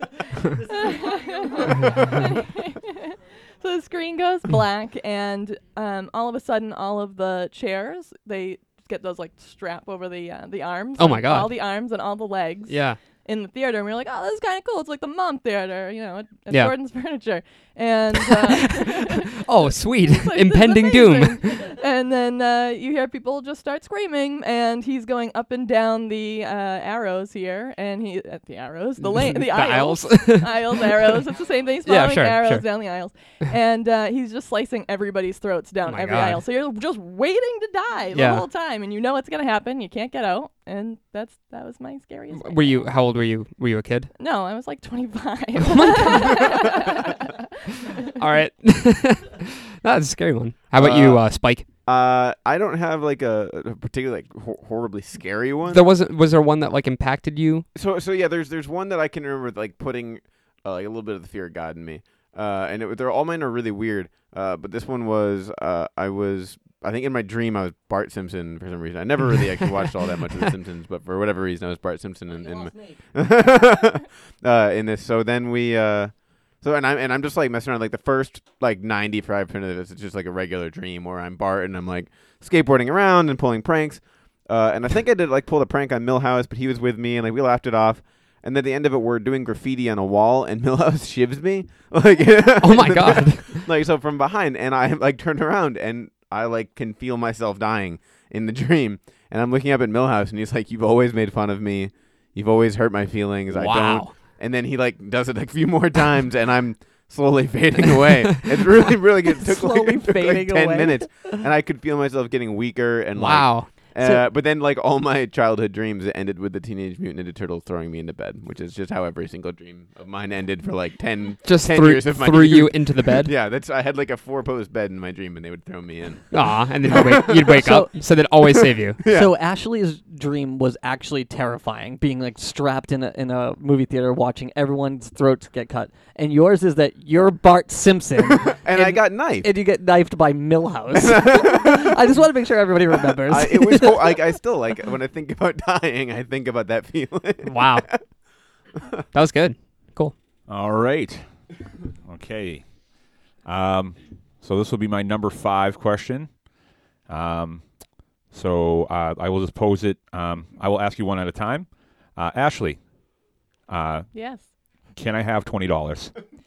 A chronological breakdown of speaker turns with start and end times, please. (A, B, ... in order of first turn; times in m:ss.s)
0:00.5-0:19.4 A
0:11.0-0:11.6 B
0:12.7-0:13.0 B
0:18.2-0:21.7 B
0:19.9-0:43.0 A
0:29.0-0:31.2 B
0:31.8-0:32.7 B
0:35.9-0:36.4 B
0:38.1-0:38.4 B
0:42.3-0:44.1 B
0:44.2-0:48.2 A
0:45.6-0:46.7 B
0:48.2-0:51.6 B
0:50.8-0:51.2 C
0:51.8-0:55.9 C
0:55.7-0:57.7 B
0:57.7-2:07.6 C
1:32.6-1:33.7 B
1:43.5-1:44.1 B
1:49.2-1:51.4 D
1:53.2-1:53.7 B
1:54.0-1:54.2 D
2:01.4-2:03.3 B
2:06.3-2:09.0 B
2:07.5-2:07.9 D
2:08.7-2:09.3 C
2:09.1-2:24.1 D
2:18.3-2:19.5 C
2:20.9-2:22.0 C
2:23.2-2:28.0 C
2:27.4-2:27.9 B
2:29.1-2:30.1 B
2:30.5-2:31.2 E
2:32.0-2:32.6 E
2:33.4-2:36.3 E
2:37.1-2:37.6 E
2:38.3-2:42.8 E
2:43.7-2:44.1 E
2:44.1-2:44.4 A
2:45.0-2:46.1 E